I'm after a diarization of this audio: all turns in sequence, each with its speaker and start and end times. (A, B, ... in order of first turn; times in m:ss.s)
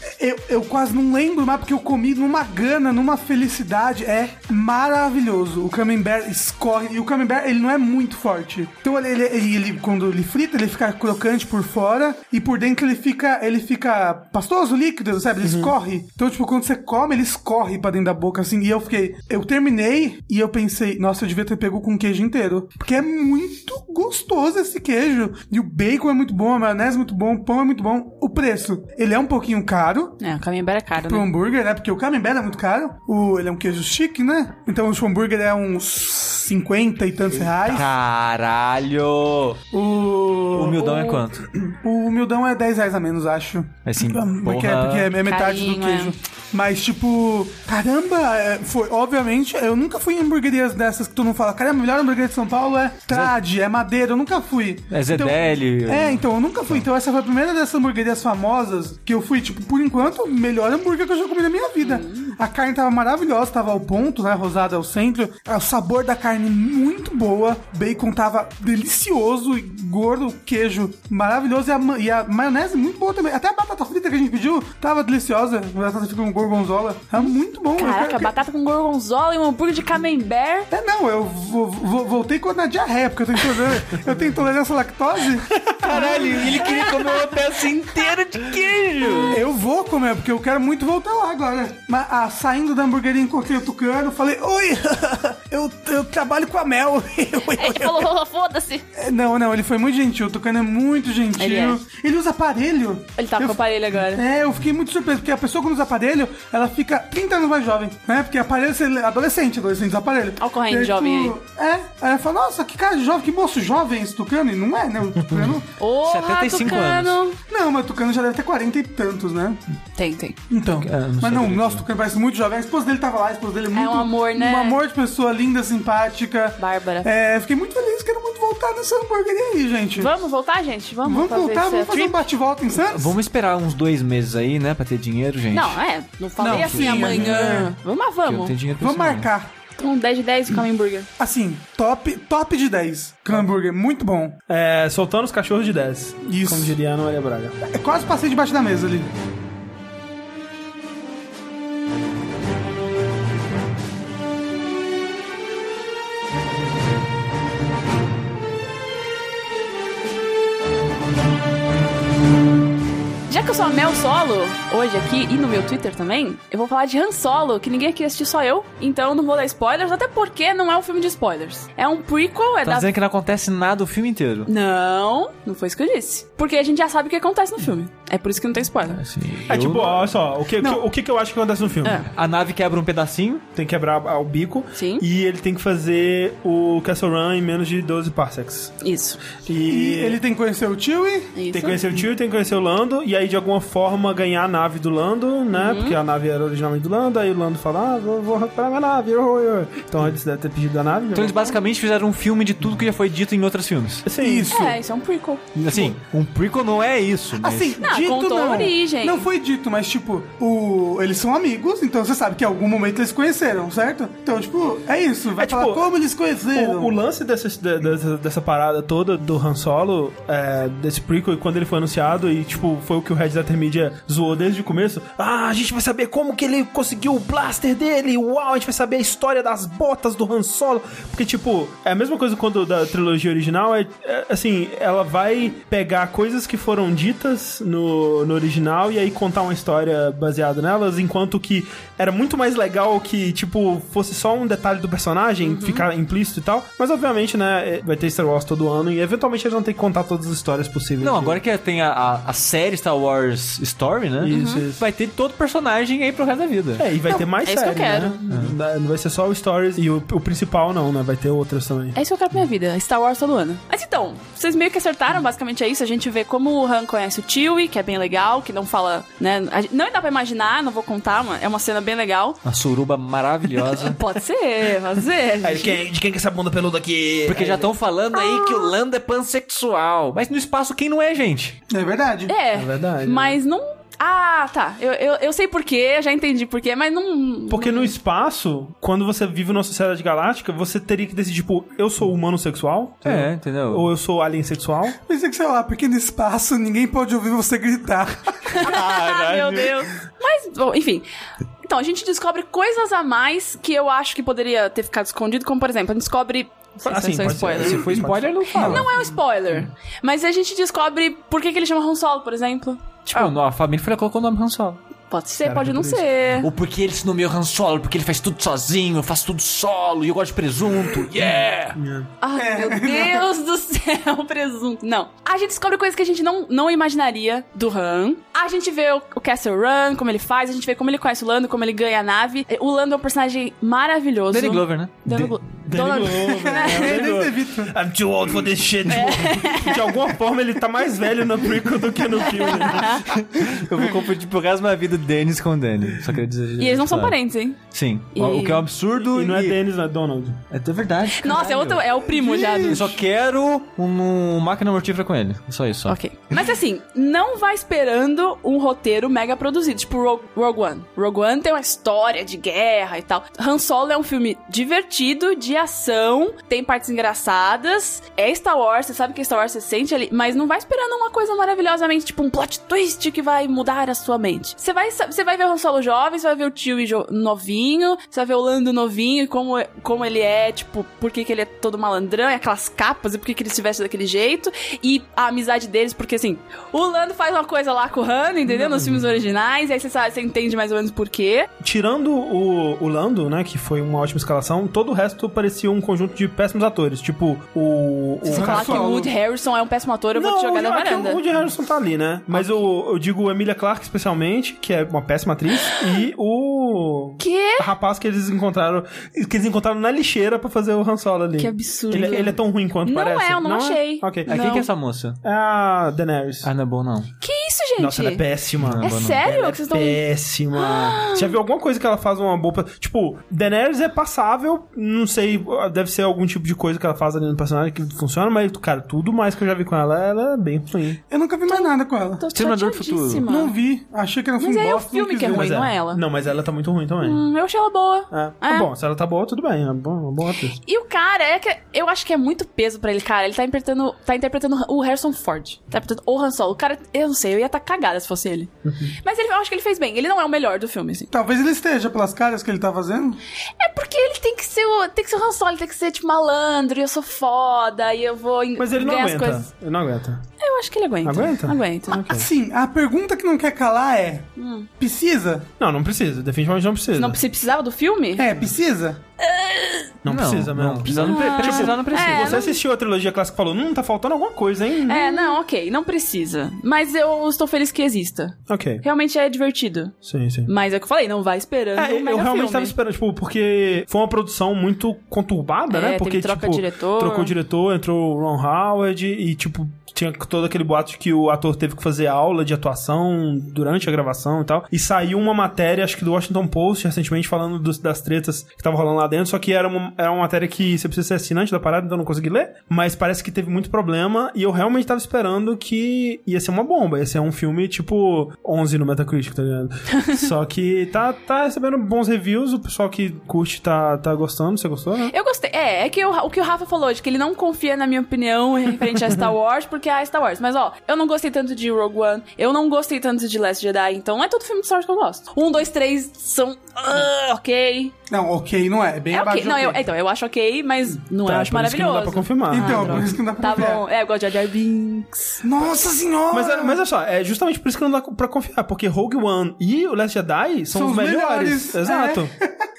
0:00.2-0:30.2 A
0:15.4-0:15.8 B
0:30.2-0:31.3 C
0:30.9-0:37.9 A
0:37.3-0:39.6 D
0:39.7-1:18.3 A
0:40.5-0:41.5 D
0:43.8-0:45.1 D
0:45.2-0:46.1 C
0:53.1-0:53.4 D
0:54.9-0:56.8 D
1:01.8-1:02.4 C
1:17.2-1:20.7 C
1:20.7-1:27.0 A
1:25.7-1:29.4 D
1:25.9-1:28.1 C
1:29.0-1:29.4 C
1:29.3-1:38.1 A
1:37.5-1:38.8 C
1:39.0-1:55.7 A
1:41.4-1:41.8 C
1:43.2-1:44.2 C
1:50.4-1:51.4 C
1:55.8-1:57.4 C
1:56.0-1:57.2 D
1:57.5-1:59.6 A
2:00.0-2:00.4 C
2:00.5-2:10.1 A
2:00.8-2:01.8 D
2:03.7-2:04.8 C
2:06.6-2:07.1 C
2:10.0-2:12.2 C
2:11.0-2:13.1 A
2:12.7-2:15.8 D
2:15.5-2:18.5 C
2:16.4-2:17.7 A
2:16.5-2:17.7 D
2:18.2-2:19.3 D
2:18.8-2:19.5 A
2:19.8-2:21.1 C
2:21.2-2:24.4 A
2:24.5-2:27.6 B
2:26.2-2:26.8 A
2:27.6-2:29.1 A
2:43.3-2:52.9 C
2:52.6-2:54.5 D
2:54.5-2:59.0 C
2:58.9-3:00.0 D
2:59.5-3:02.0 B
3:02.1-3:03.4 D
3:03.6-3:08.8 B
3:04.8-3:05.0 C
3:08.8-3:09.2 C
3:09.4-3:10.2 B
3:09.7-3:11.3 A
3:11.4-3:11.8 C
3:11.5-3:21.6 B
3:15.5-3:16.0 C
3:21.1-3:24.1 D
3:24.0-3:24.7 B
3:24.2-3:24.8 A
3:24.5-3:25.4 C
3:25.6-3:27.8 D
3:27.4-3:36.9 A
3:27.8-3:29.3 C
3:35.4-3:35.9 B
3:36.5-4:11.4 B
4:05.4-4:05.8 C
4:11.0-4:16.8 D
4:14.2-4:14.8 B
4:14.3-4:14.6 C
4:16.8-4:22.0 B
4:17.1-4:18.2 C
4:22.0-4:32.4 C
4:32.4-4:34.0 D
4:33.7-4:35.8 C
4:35.4-4:37.7 B
4:37.3-4:41.6 D
4:38.1-4:38.7 C
4:41.7-4:42.3 A
4:42.3-4:47.9 C
4:42.5-4:43.4 B
4:47.5-4:55.0 B
4:53.0-4:53.9 D
4:55.0-4:58.4 A
4:58.5-5:01.1 C
4:58.6-4:59.9 D
5:01.6-5:07.9 C
5:06.8-5:08.9 B
5:07.2-5:08.9 D
5:08.5-5:13.3 C
5:13.1-5:14.8 D
5:15.1-5:16.5 C
5:15.4-5:16.1 B
5:16.4-5:21.8 D
5:21.8-5:22.1 B
5:22.2-5:37.0 C
5:22.4-5:23.3 A
5:34.3-5:35.3 D
5:35.1-5:43.1 B
5:36.3-5:37.7 A
5:38.9-5:39.9 C
5:42.4-5:43.0 C
5:43.1-5:47.2 D
5:46.6-5:47.6 C
5:47.7-5:49.6 D
5:48.1-5:48.7 C
5:49.0-5:50.4 B
5:50.5-5:51.9 D
5:51.1-5:52.9 C
5:52.1-5:53.0 A
5:52.6-5:56.0 D
5:55.9-6:31.5 C
6:28.6-6:29.0 B
6:31.6-6:38.9 B
6:38.2-6:41.2 C
6:38.3-6:39.1 A
6:40.2-6:54.6 B
6:42.3-6:42.6 C
6:45.7-6:46.0 C
6:47.2-6:47.7 C
6:51.4-6:54.7 C
6:54.3-6:55.2 D
6:55.2-6:56.5 B
6:56.4-6:57.1 D
6:57.2-6:58.2 C
6:57.8-7:11.0 B
6:58.6-6:59.3 D
6:58.8-7:00.0 C
7:00.6-7:01.3 C
7:11.1-7:12.2 A
7:11.5-7:13.5 C
7:12.3-7:13.3 D
7:13.3-7:15.6 A
7:14.4-7:16.0 C
7:15.3-7:17.2 B
7:17.0-7:18.7 C
7:18.1-7:20.6 B
7:20.6-7:31.1 C
7:28.6-7:28.9 B
7:31.1-7:33.2 A
7:33.6-7:39.5 C
7:38.6-7:40.2 B
7:40.4-7:42.2 C
7:41.0-7:42.3 B
7:42.1-7:45.5 A
7:44.4-7:44.7 C
7:45.6-7:47.2 B
7:47.0-7:48.3 C
7:48.2-7:49.0 A
7:49.2-7:50.0 C
7:50.0-7:55.4 B
7:50.1-7:52.4 D
7:50.9-7:52.6 C
7:54.9-8:00.0 C
7:58.5-7:58.8 B
8:00.0-8:00.5 B
8:00.5-8:02.8 C
8:01.8-8:35.1 B
8:05.7-8:07.3 C
8:29.9-8:30.2 C
8:35.1-8:47.9 C
8:48.1-8:49.8 A
8:49.1-8:55.4 C
8:51.2-8:53.2 B
8:52.5-8:53.8 A
8:55.4-8:56.8 A
8:56.3-9:02.3 B
9:00.7-9:02.5 A